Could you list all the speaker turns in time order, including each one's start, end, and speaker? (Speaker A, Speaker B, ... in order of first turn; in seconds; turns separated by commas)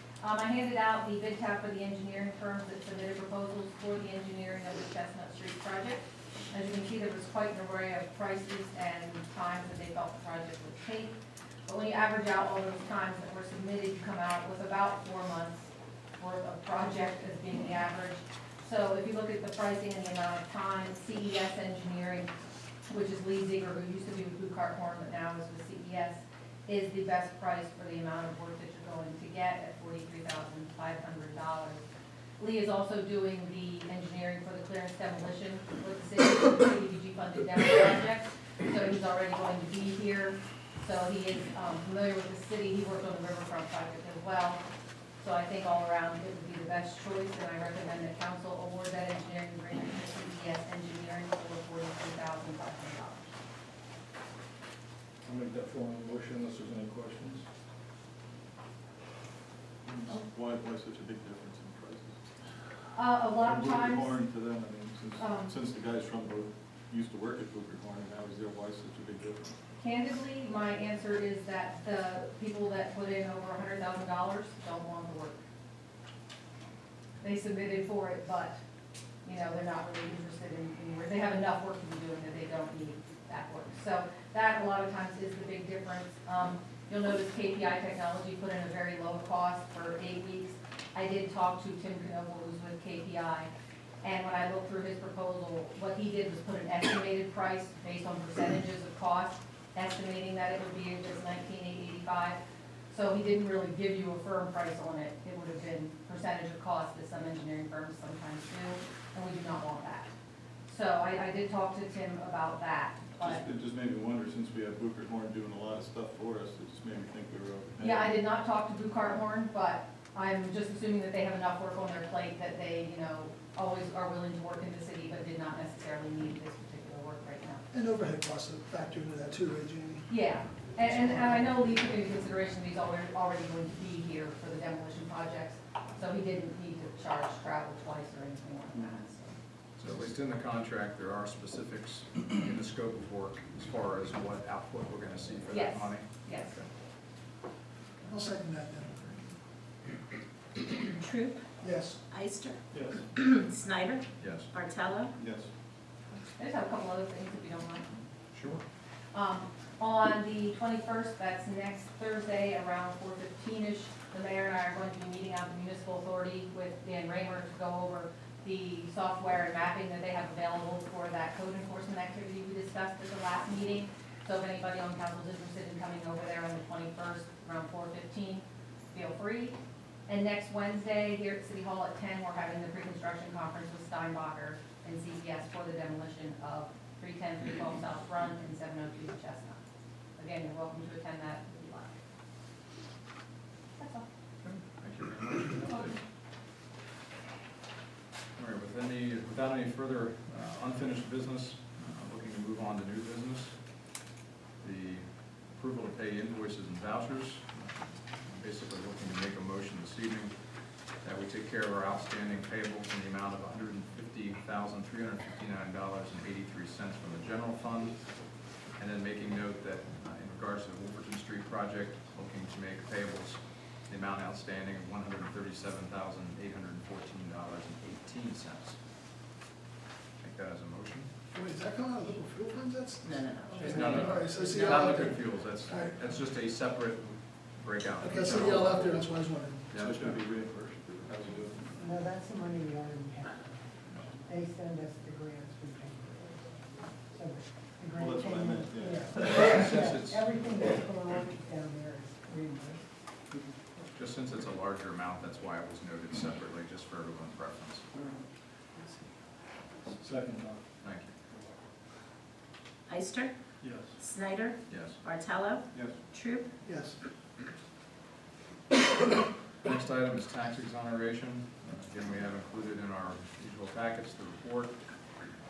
Speaker A: 0.2-22.3, Speaker A: 22.9-31.8, Speaker A: 32.4-44.6, Speaker A: 45.2-53.4, Speaker B: 55.2-57.5, Speaker C: 59.9-62.2, Speaker A: 62.9-64.2, Speaker C: 63.4-69.6, Speaker A: 65.2-65.5, Speaker A: 69.8-75.4, Speaker A: 77.2-78.6, Speaker A: 79.2-93.5, Speaker A: 94.0-102.4, Speaker A: 102.9-110.1, Speaker A: 110.7-113.4, Speaker C: 113.2-118.1, Speaker A: 117.8-127.6, Speaker D: 127.7-130.1, Speaker A: 130.1-139.3, Speaker E: 139.8-146.7, Speaker A: 145.5-146.6, Speaker D: 148.1-149.1, Speaker F: 150.8-151.4, Speaker D: 151.6-152.0, Speaker F: 152.1-152.6, Speaker B: 152.7-153.0, Speaker F: 153.1-155.1, Speaker E: 154.2-154.5, Speaker C: 155.2-155.5, Speaker A: 156.3-157.9, Speaker E: 158.3-158.6, Speaker A: 159.1-179.6, Speaker A: 180.1-189.6, Speaker A: 190.2-192.0, Speaker A: 193.8-194.1, Speaker E: 194.4-196.0, Speaker A: 195.7-195.9, Speaker E: 198.3-203.9, Speaker E: 204.6-210.3, Speaker E: 211.0-218.2, Speaker E: 218.8-228.8, Speaker E: 230.2-231.1, Speaker D: 231.3-236.1, Speaker F: 233.0-234.7, Speaker E: 233.6-239.0, Speaker D: 238.0-239.8, Speaker E: 239.7-240.3, Speaker C: 239.8-241.8, Speaker G: 241.8-252.9, Speaker C: 247.9-249.5, Speaker E: 249.2-250.3, Speaker E: 253.9-257.9, Speaker B: 257.9-258.2, Speaker B: 260.0-260.7, Speaker E: 260.8-261.1, Speaker F: 262.9-263.3, Speaker B: 263.6-264.0, Speaker F: 264.0-266.5, Speaker E: 264.7-265.0, Speaker C: 265.7-266.0, Speaker D: 266.6-267.0, Speaker E: 269.6-274.9